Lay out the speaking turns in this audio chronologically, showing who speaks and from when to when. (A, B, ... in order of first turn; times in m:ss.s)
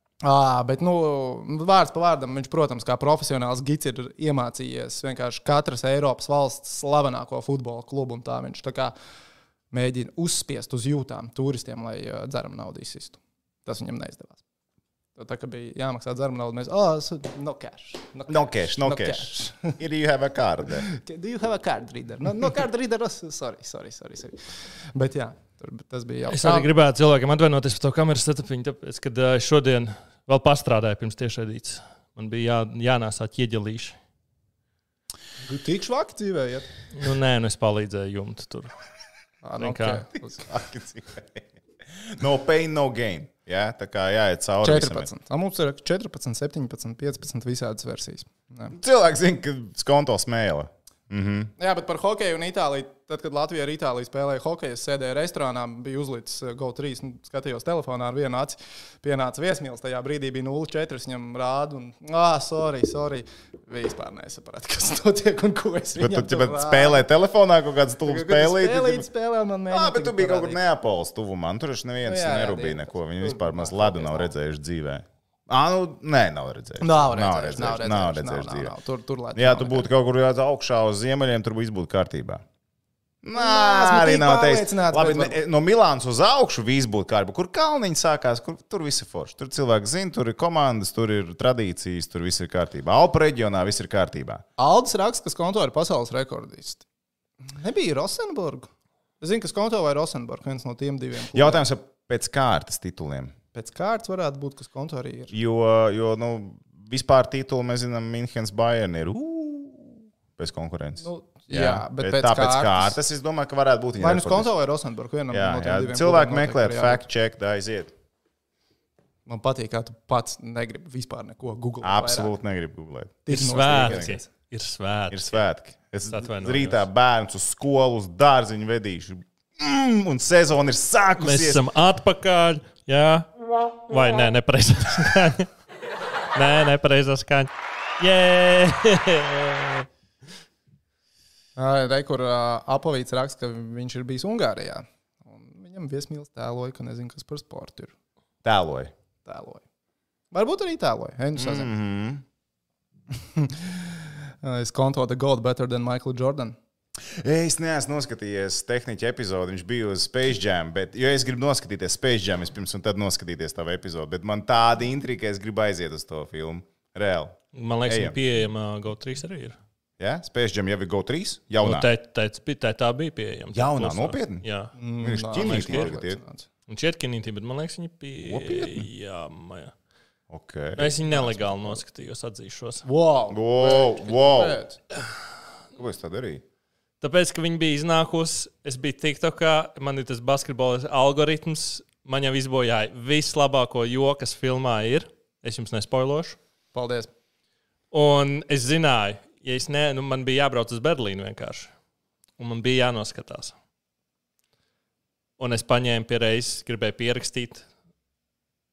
0:00.2-0:08.9 A
0:09.7-0:14.4 A
0:15.2-0:19.8 A
0:18.3-0:20.8 B
0:20.8-0:24.4 A
0:24.9-0:26.7 A
0:26.3-0:34.0 C
0:35.4-0:36.7 A
0:36.9-0:38.7 C
0:39.4-0:40.4 A
0:39.6-0:40.0 C
0:40.1-0:45.1 B
0:44.6-0:48.8 A
0:48.7-0:51.5 B
0:51.6-1:07.0 A
1:06.0-1:09.1 B
1:08.0-1:10.6 A
1:09.7-1:18.7 B
1:12.0-1:14.3 A
1:16.8-1:19.9 A
1:19.4-1:22.4 B
1:23.2-1:34.4 B
1:23.3-1:25.4 A
1:34.6-1:36.8 A
1:37.4-1:38.7 A
1:39.2-1:41.6 A
1:41.3-1:43.3 B
1:43.5-1:45.3 A
1:45.3-1:54.5 B
1:51.0-1:53.0 A
1:54.0-1:57.0 A
1:55.3-1:57.9 B
1:59.2-2:02.3 A
2:01.8-2:04.2 B
2:03.2-2:04.3 A
2:03.3-2:05.4 C
2:05.1-2:11.6 B
2:06.1-2:06.8 C
2:11.2-2:13.3 C
2:13.8-2:15.5 C
2:16.3-2:19.9 C
2:21.6-2:27.9 A
2:28.4-2:28.9 B
2:29.2-2:29.6 A
2:30.3-2:31.7 A
2:31.4-2:32.2 B
2:33.1-2:36.6 A
2:37.0-2:48.2 B
2:47.5-2:49.6 C
2:50.0-2:51.9 B
2:51.6-2:54.7 C
2:53.5-2:54.4 B
2:54.7-2:56.4 A
2:55.0-2:56.2 B
2:55.4-2:55.9 C
2:56.7-2:59.7 C
2:58.2-2:58.8 B
3:00.3-3:01.1 B
3:00.8-3:02.8 C
3:01.2-3:01.7 A
3:02.8-3:04.8 A
3:03.3-3:04.6 B
3:05.8-3:06.4 B
3:07.0-3:16.4 C
3:16.7-3:17.1 A
3:17.9-3:21.7 C
3:22.4-3:23.5 C
3:25.4-3:27.6 C